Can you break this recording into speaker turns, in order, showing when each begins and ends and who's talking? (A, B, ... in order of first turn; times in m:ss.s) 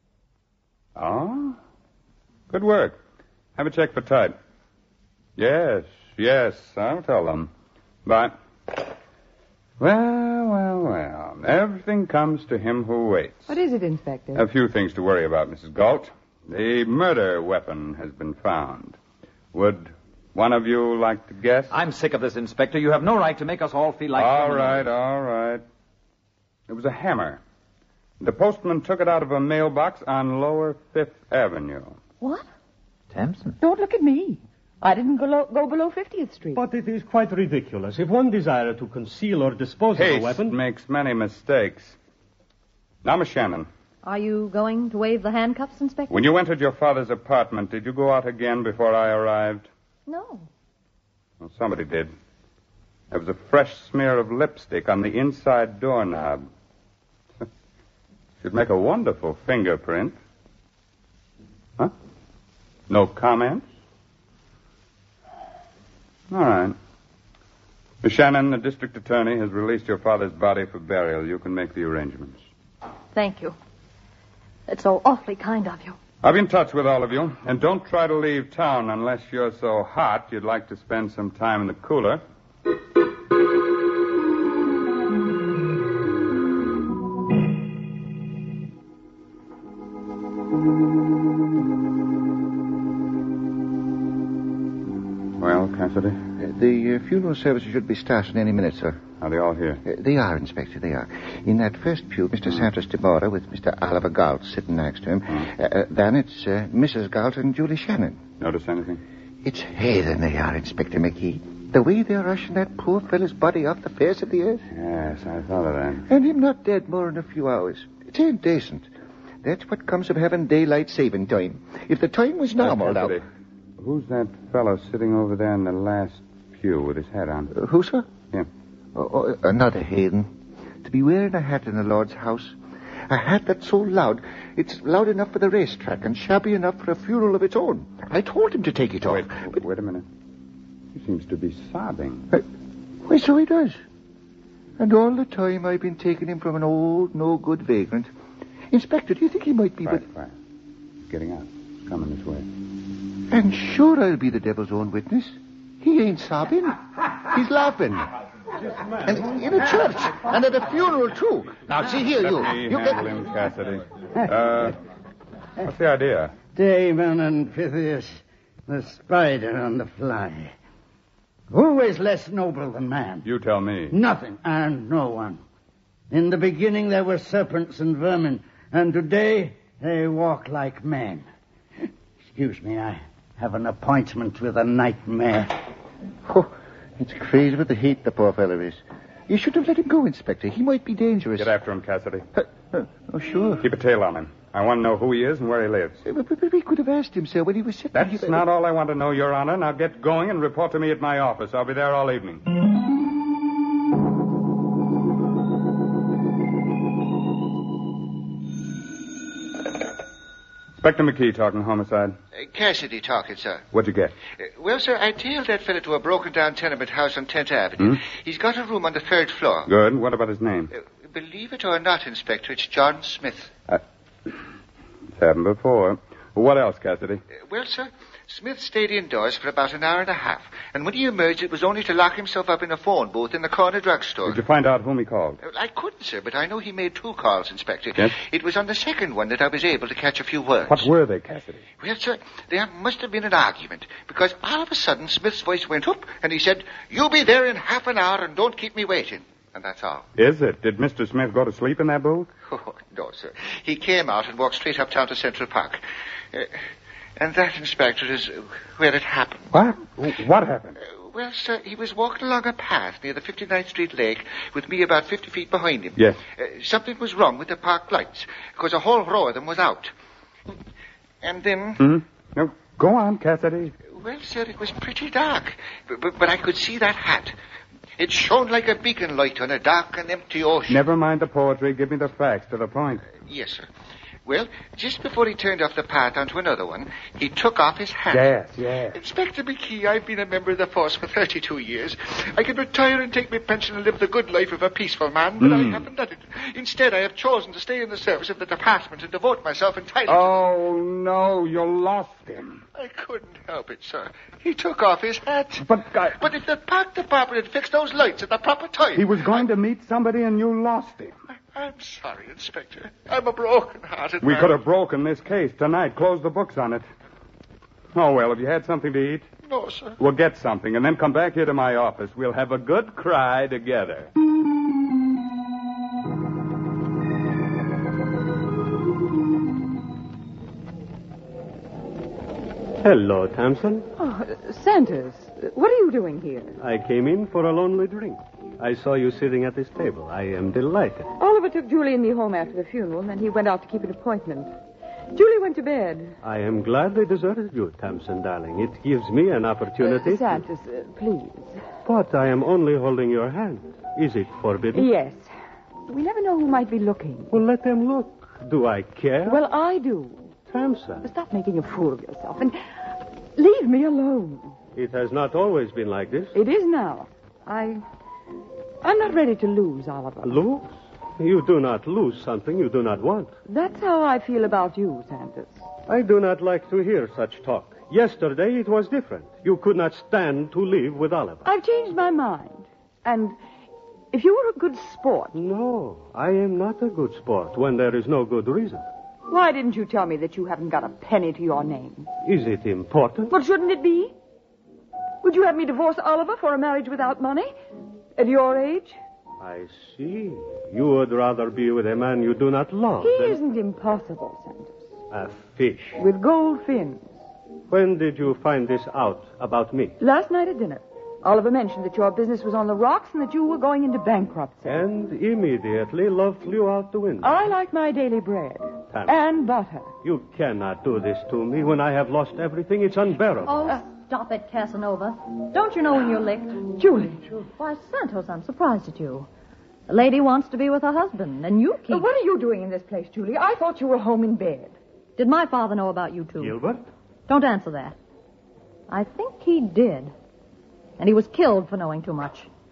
0:01.0-0:01.6 A
0:02.5-0:03.0 A
0:03.6-0:04.4 A
0:05.4-0:07.5 A
0:08.0-0:08.4 A
0:09.8-0:13.5 A
0:13.5-0:14.4 B
0:14.3-0:19.0 A
0:19.5-0:21.7 A
0:21.7-0:24.9 C
0:24.2-0:25.6 A
0:26.7-0:27.4 A
0:28.2-0:32.0 A
0:33.1-0:33.6 C
0:33.6-0:36.6 B
0:36.5-0:40.6 D
0:40.0-0:42.0 A
0:43.0-0:43.7 A
0:44.0-0:46.1 E
0:46.1-0:49.7 A
0:50.1-0:50.5 E
0:51.4-0:52.1 A
0:53.1-0:56.4 A
0:58.4-1:00.2 A
1:02.9-1:03.6 A
1:06.3-1:06.7 A
1:08.0-1:12.4 A
1:13.1-1:13.5 E
1:14.7-1:16.0 E
1:16.2-1:22.2 A
1:35.4-1:36.2 A
1:36.4-1:39.0 F
1:39.2-1:39.8 A
1:39.8-1:48.2 F
1:48.4-1:49.0 A
1:49.4-1:54.6 F
1:54.7-1:56.1 A
1:56.1-1:58.9 F
1:59.4-2:03.2 F
2:02.6-2:03.2 A
2:03.8-2:07.5 A
2:07.5-2:08.1 F
2:08.9-2:10.3 F
2:10.8-2:12.6 F
2:13.1-2:19.6 F
2:19.0-2:20.0 A
2:20.9-2:22.3 A
2:23.0-2:23.8 F
2:24.8-2:28.1 F
2:28.7-2:30.0 F
2:29.8-2:30.3 A
2:31.0-2:32.4 A
2:33.3-2:38.1 F
2:39.0-2:43.1 F
2:41.9-2:44.8 A
2:45.6-2:46.3 A
2:46.5-2:50.5 G
2:51.5-2:53.2 G
2:53.2-2:53.9 A
2:53.9-2:55.4 G
2:56.1-3:01.3 G
3:02.3-3:05.5 G
3:06.2-3:11.5 F
3:11.4-3:12.3 A
3:12.4-3:13.6 F
3:13.6-3:16.0 A
3:16.0-3:18.4 F
3:17.9-3:22.4 A
3:30.8-3:32.2 A
3:32.3-3:33.6 F
3:33.7-3:34.1 A
3:34.4-3:39.7 F
3:39.7-3:40.7 A
3:40.7-3:43.5 F
3:43.7-3:44.3 A
3:45.2-3:47.2 A
3:47.3-3:54.4 F
3:54.2-3:55.4 A
3:55.4-4:00.9 F
4:00.7-4:01.6 A
4:01.8-4:10.0 F
4:10.2-4:12.3 A
4:12.5-4:15.8 F
4:17.2-4:19.5 F
4:19.5-4:20.8 A
4:20.8-4:29.9 F
4:31.2-4:31.8 F
4:31.8-4:33.7 A
4:33.8-4:37.3 F
4:38.0-4:40.8 F
4:40.7-4:43.0 A
4:43.1-4:43.7 F
4:44.2-4:48.3 F
4:48.1-4:49.0 A
4:48.9-5:00.4 F
4:55.4-4:55.9 A
5:00.0-5:02.6 A
5:02.7-5:09.5 F
5:05.6-5:06.3 A
5:09.0-5:11.1 A
5:11.5-5:14.6 F
5:14.2-5:16.8 A
5:17.9-5:19.3 A
5:19.4-5:20.0 F
5:20.0-5:24.1 A
5:32.8-5:33.9 D
5:34.0-5:36.6 B
5:36.6-5:41.1 D
5:41.2-5:44.5 B
5:45.1-5:46.2 B
5:46.2-5:50.4 D
5:49.8-5:51.6 B
5:51.8-5:54.9 D
5:54.7-5:55.3 B
5:55.9-5:57.4 B
5:57.3-5:59.4 D
5:59.2-6:00.3 B
6:00.5-6:01.0 D
6:01.0-6:02.8 B
6:03.4-6:04.6 B
6:04.7-6:06.4 D
6:06.3-6:07.8 B
6:08.8-6:10.4 B
6:10.2-6:13.3 D
6:13.5-6:15.6 B
6:15.9-6:21.5 D
6:21.4-6:23.4 B
6:24.1-6:25.4 B
6:25.3-6:28.8 D
6:29.3-6:32.1 B
6:32.2-6:33.3 D
6:33.3-6:34.1 B
6:35.2-6:37.5 B
6:38.2-6:39.0 B
6:39.4-6:43.4 D
6:43.0-6:44.8 B
6:45.1-6:46.0 D
6:46.0-6:47.2 B
6:47.7-6:50.0 D
6:50.0-6:54.8 B
6:54.6-6:57.5 D
6:57.2-6:59.9 B
7:00.0-7:03.7 D
7:03.4-7:06.8 E
7:06.8-7:07.2 B
7:07.4-7:09.3 E
7:09.9-7:12.1 E
7:11.9-7:14.7 B
7:15.2-7:16.6 E
7:16.4-7:16.8 D
7:17.3-7:17.9 E
7:18.9-7:20.1 E
7:21.0-7:22.5 E